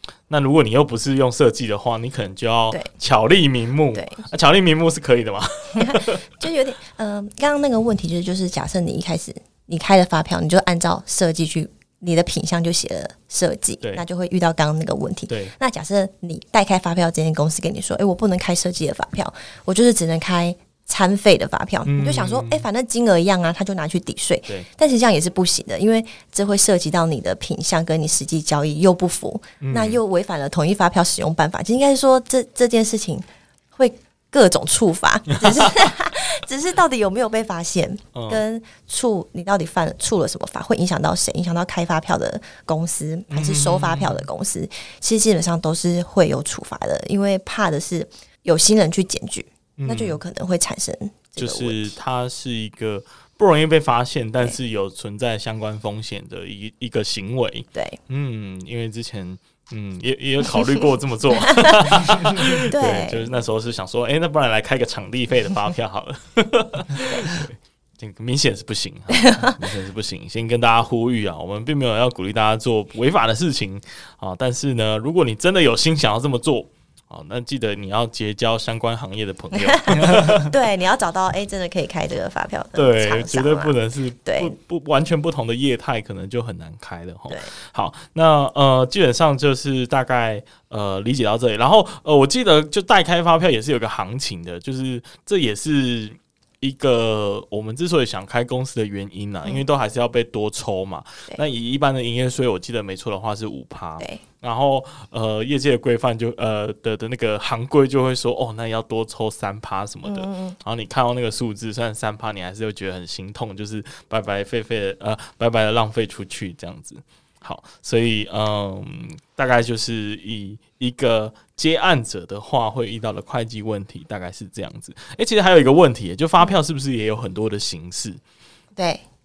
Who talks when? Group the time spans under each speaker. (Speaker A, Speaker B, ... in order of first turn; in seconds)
Speaker A: 0.3-6.2, 15.3-15.5, 21.9-22.6, 29.6-30.0, 38.1-38.4, 43.3-44.3, 49.8-50.2, 51.4-80.5, 82.7-128.2
Speaker B: 3.9-4.3, 5.7-52.0, 61.5-61.8, 62.7-63.3, 69.2-69.6, 79.5-84.5, 110.0-110.6, 128.8-129.0